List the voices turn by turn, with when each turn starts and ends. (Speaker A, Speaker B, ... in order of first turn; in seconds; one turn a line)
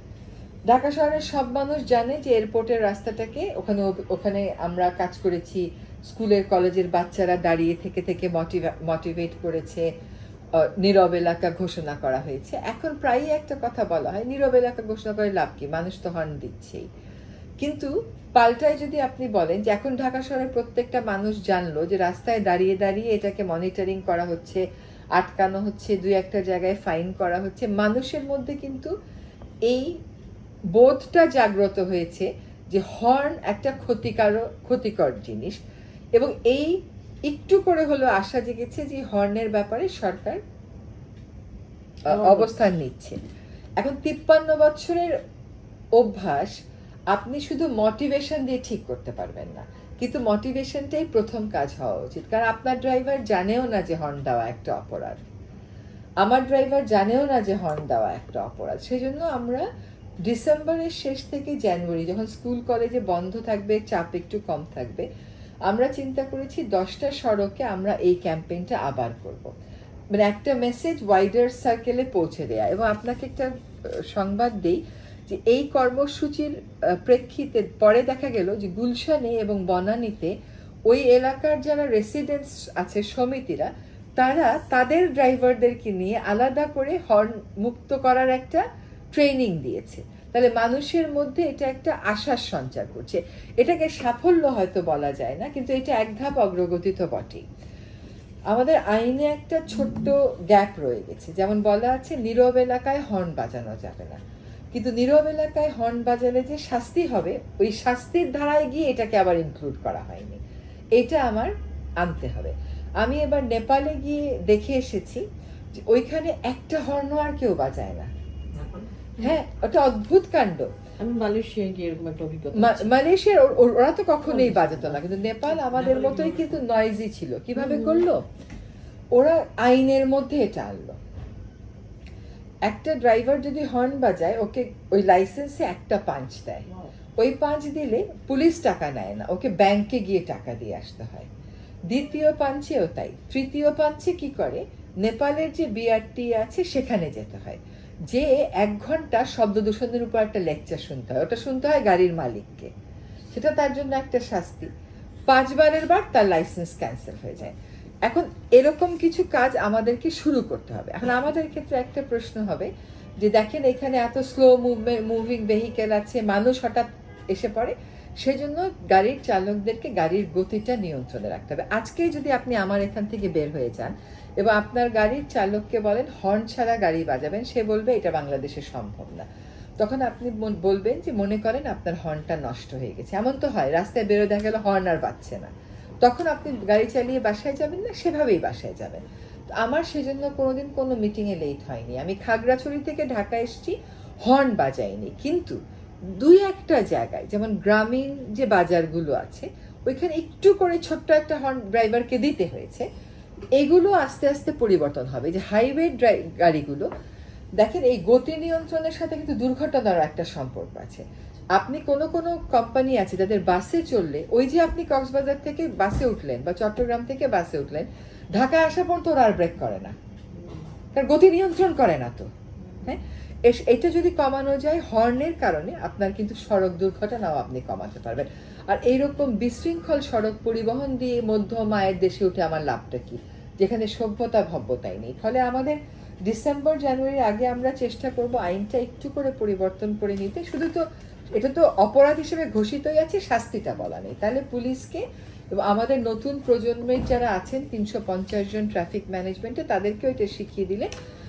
Speaker A: 0.7-9.9
Speaker A: 10.6-16.9
Speaker A: 17.6-24.6
Speaker A: 25.2-28.9
Speaker A: 30.7-35.6
Speaker A: 36.2-36.7
Speaker A: 37.3-40.4
Speaker B: 42.1-42.5
Speaker A: 42.1-43.2
Speaker A: 43.8-45.1
Speaker A: 46.0-46.5
Speaker A: 47.1-55.2
Speaker A: 56.2-59.6
Speaker A: 60.2-65.1
Speaker A: 65.7-69.5
Speaker A: 70.1-73.5
Speaker A: 74.1-80.3
Speaker A: 80.9-88.6
Speaker A: 89.1-97.4
Speaker A: 98.5-104.2
Speaker A: 104.7-110.4
Speaker A: 111.0-115.2
Speaker A: 115.9-118.1
Speaker B: 118.5-118.8
Speaker A: 119.2-120.7
Speaker B: 121.0-123.0
Speaker A: 122.5-128.2
Speaker B: 124.3-125.0
Speaker B: 127.6-128.0
Speaker A: 129.1-131.0
Speaker A: 132.7-136.7
Speaker A: 137.2-141.3
Speaker A: 141.9-152.7
Speaker A: 153.3-154.7
Speaker A: 155.3-162.7
Speaker A: 163.2-179.3
Speaker A: 179.8-185.5
Speaker A: 186.0-189.0
Speaker A: 189.5-195.6
Speaker A: 196.1-202.8
Speaker A: 203.6-206.9
Speaker A: 207.6-211.0
Speaker A: 211.6-219.9
Speaker B: 220.3-220.7
Speaker A: 220.9-222.3
Speaker A: 222.8-240.8
Speaker A: 241.3-250.9